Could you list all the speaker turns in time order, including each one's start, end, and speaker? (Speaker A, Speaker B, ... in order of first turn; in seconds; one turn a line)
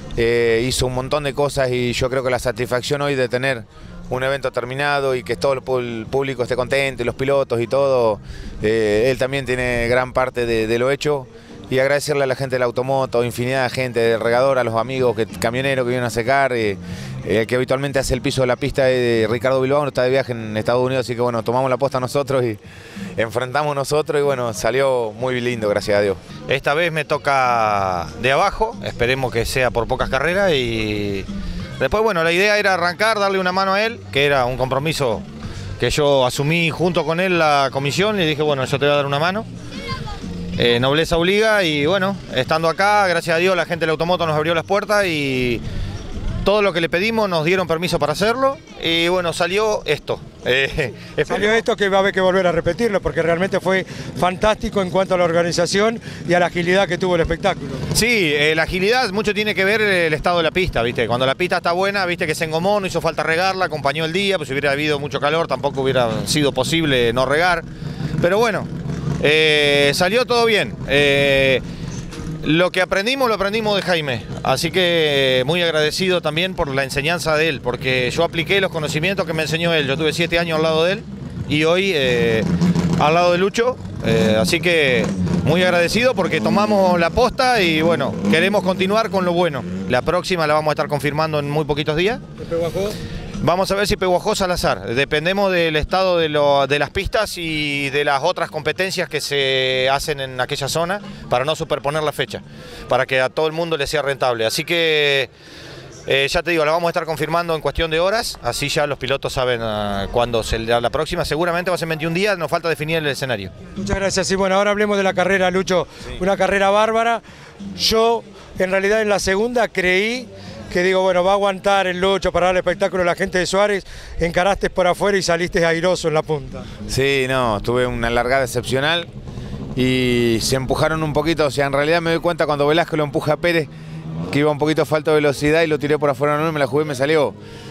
Speaker A: 0.2-22.6
Speaker A: 23.2-26.2
Speaker B: 26.4-31.2
Speaker B: 31.8-35.2
Speaker B: 35.8-39.5
Speaker B: 40.5-45.6
Speaker B: 46.4-51.6
Speaker C: 51.3-57.8
Speaker B: 57.9-67.6
Speaker B: 68.2-68.7
Speaker B: 69.2-71.6
Speaker B: 72.4-82.5
Speaker B: 83.0-92.2
Speaker C: 92.4-93.0
Speaker B: 93.4-105.3
Speaker B: 106.1-113.5
Speaker C: 113.8-117.2
Speaker C: 117.8-126.7
Speaker A: 126.9-129.1
Speaker A: 129.8-133.7
Speaker A: 134.3-137.3